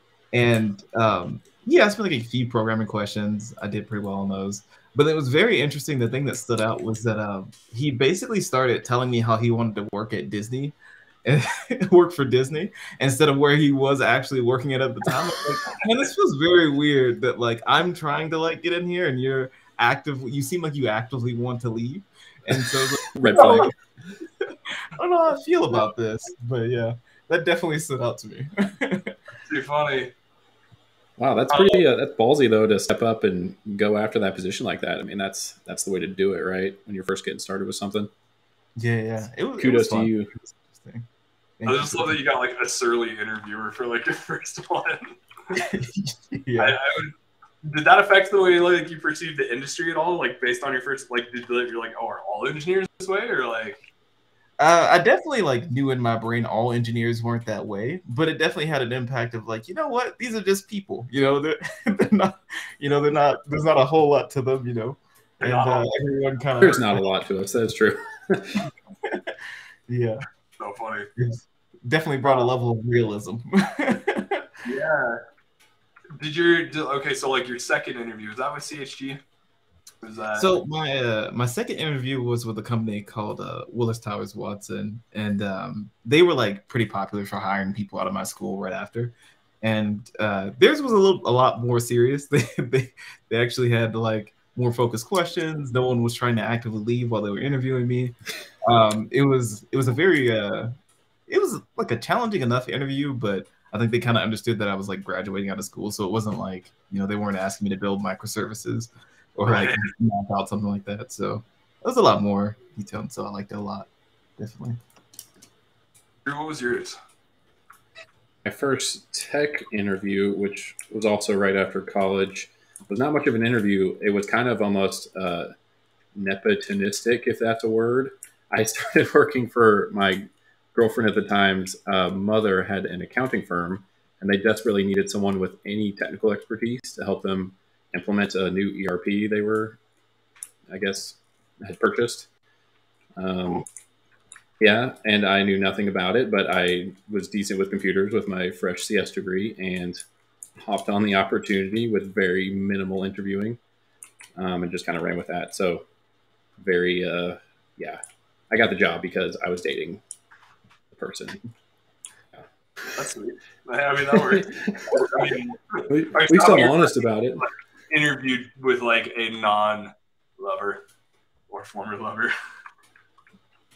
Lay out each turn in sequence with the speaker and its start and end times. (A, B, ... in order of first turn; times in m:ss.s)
0:00.3-0:23.7 A
0:23.1-0:23.8 B
0:25.0-0:29.2 A
0:29.5-0:30.1 C
0:31.2-0:38.1 B
0:31.5-0:31.8 C
0:38.8-0:41.0 A
0:39.6-0:40.3 B
0:41.6-0:42.2 A
0:41.6-0:45.2 C
0:45.5-0:46.8 A
0:46.6-0:53.8 C
0:54.6-1:07.1 A
1:05.4-1:05.9 C
1:06.6-1:08.6 B
1:09.0-1:09.4 A
1:09.9-1:10.2 A
1:10.6-1:11.1 C
1:11.2-1:14.5 A
1:12.2-1:12.5 C
1:14.6-1:15.2 C
1:16.2-1:19.2 C
1:20.0-1:20.5 C
1:20.4-1:40.7 A
1:41.3-1:54.8 A
1:49.4-1:49.9 C
1:56.2-1:57.0 C
1:58.4-2:05.5 B
2:06.1-2:19.8 B
2:20.7-2:22.3 B
2:23.2-2:23.6 B
2:24.6-2:30.0 B
2:30.6-2:33.6 B
2:34.4-2:35.8 B
2:36.6-2:40.0 B
2:40.9-2:41.4 B
2:42.3-2:43.0 B
2:43.0-2:50.8 C
2:44.1-2:45.4 B
2:45.9-2:47.4 B
2:51.5-2:52.3 C